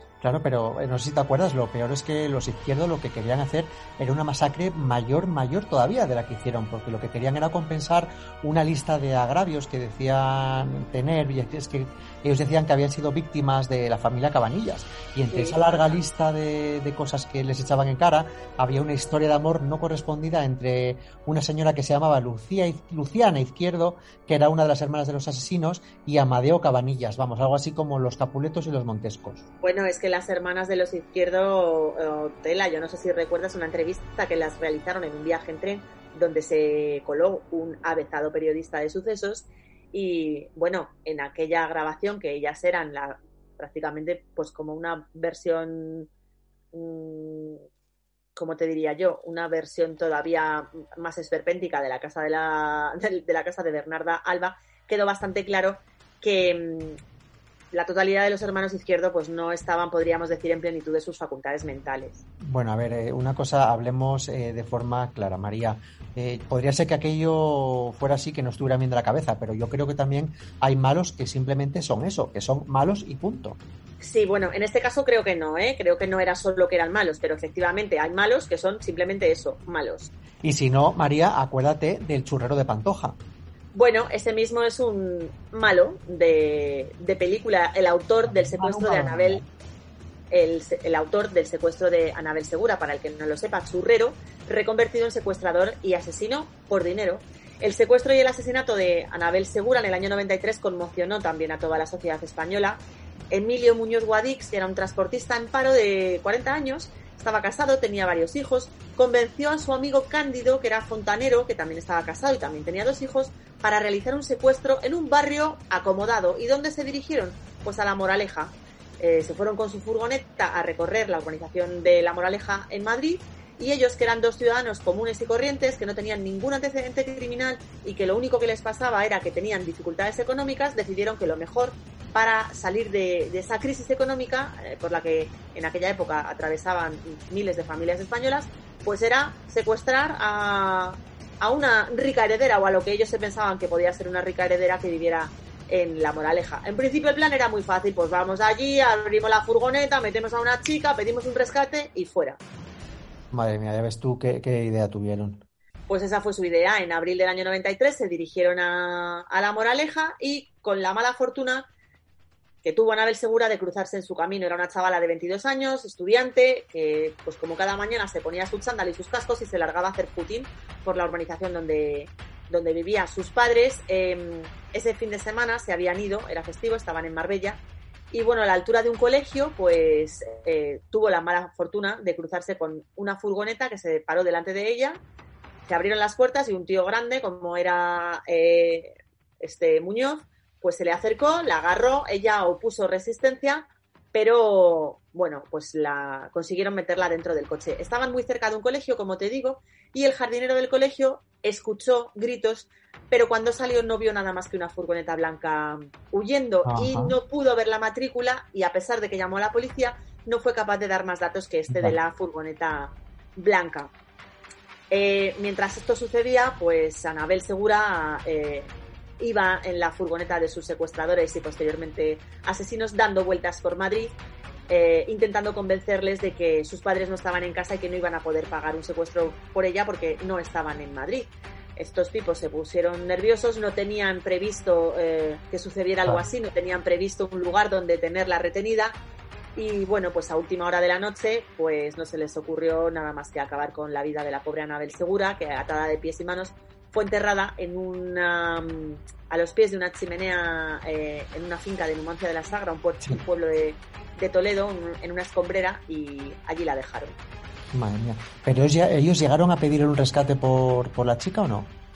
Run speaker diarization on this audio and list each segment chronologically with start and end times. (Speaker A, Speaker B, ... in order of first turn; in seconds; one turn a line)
Speaker A: 0.2-29.4
Speaker B: 15.3-16.0
Speaker B: 29.6-46.1
Speaker B: 46.7-47.6
Speaker B: 48.4-57.0
Speaker B: 57.7-62.2
Speaker A: 62.4-73.6
Speaker B: 74.0-80.1
Speaker A: 80.4-83.2
Speaker B: 83.7-89.4
Speaker A: 88.2-89.5
Speaker B: 90.3-152.4
Speaker A: 153.3-155.4
Speaker B: 155.9-161.7
Speaker B: 162.6-185.0
Speaker B: 185.7-213.9
Speaker A: 206.6-207.2
Speaker A: 211.7-212.0
Speaker B: 214.9-224.2
Speaker B: 224.7-238.9
Speaker B: 239.6-257.1
Speaker A: 257.7-261.7